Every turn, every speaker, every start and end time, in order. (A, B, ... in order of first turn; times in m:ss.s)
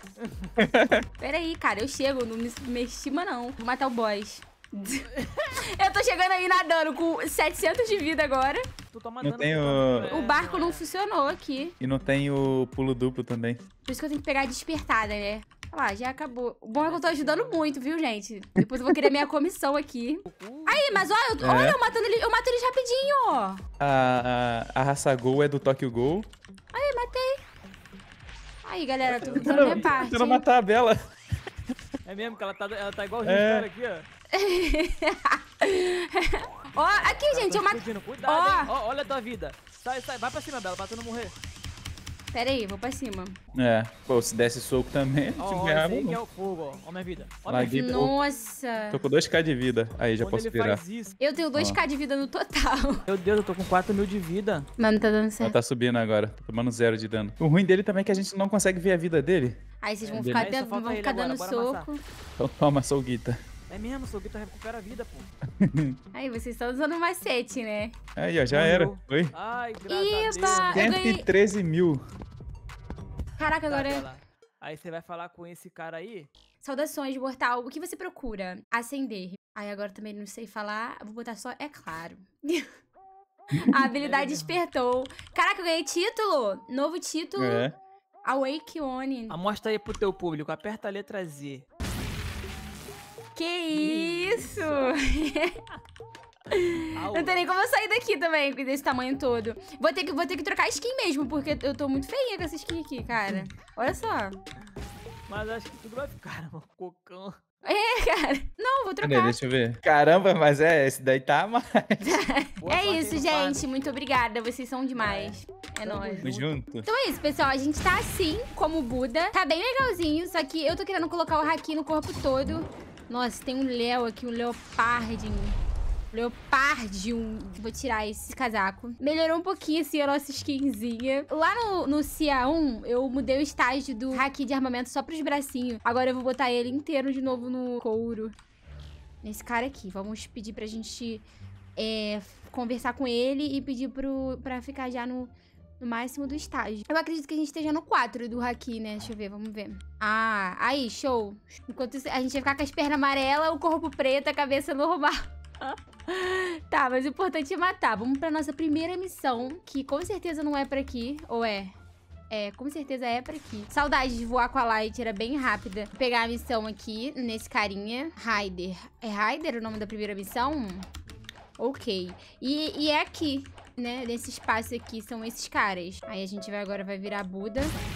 0:00.2-0:00.5 A
0:00.6-0:01.0 B
0:01.2-0:08.6 C
0:05.1-0:05.6 A
0:08.9-0:10.8 A
0:09.2-0:10.1 B
0:10.0-0:11.7 C
0:11.8-0:13.6 B
0:13.8-0:23.6 C
0:16.8-0:17.8 A
0:20.3-0:21.1 A
0:21.4-0:21.8 B
0:23.8-0:26.3 B
0:26.7-0:27.4 C
0:28.6-0:30.4 C
0:29.0-0:30.1 A
0:29.3-0:31.0 B
0:32.0-0:34.0 A
0:33.2-0:33.7 B
0:34.3-0:38.7 C
0:37.0-0:41.3 A
0:42.3-0:43.3 C
0:43.5-0:46.2 B
0:45.4-0:48.1 A
0:47.5-0:48.2 B
0:47.6-0:49.0 C
0:48.9-0:50.8 B
0:50.2-0:51.1 A
0:51.2-0:53.0 C
0:51.5-0:51.8 B
0:53.1-0:54.7 A
0:54.8-0:55.6 C
0:55.4-0:59.6 B
0:59.8-1:02.0 C
1:00.0-1:01.9 A
1:00.1-1:00.5 B
1:02.4-1:03.4 B
1:03.7-1:05.3 A
1:05.6-1:06.0 B
1:06.1-1:08.0 C
1:08.2-1:09.3 B
1:08.5-1:10.9 A
1:09.9-1:11.3 C
1:10.7-1:12.0 B
1:13.4-1:14.1 C
1:13.7-1:16.3 A
1:16.6-1:22.7 C
1:23.5-1:27.7 C
1:24.0-1:24.6 A
1:27.4-1:27.7 B
1:28.2-1:29.4 C
1:29.3-1:31.6 A
1:33.4-1:35.6 C
1:33.7-1:35.0 A
1:36.5-1:44.4 C
1:36.9-1:37.5 A
1:45.3-1:47.4 A
1:47.6-1:49.4 C
1:49.0-1:52.2 B
1:52.0-1:56.3 C
1:52.6-1:53.7 A
1:55.0-1:56.5 A
1:56.2-1:56.9 B
1:56.8-2:05.6 C
2:06.1-2:18.3 C
2:19.2-2:21.2 C
2:21.8-2:41.7 C
2:42.3-2:50.9 C
2:51.6-2:57.7 C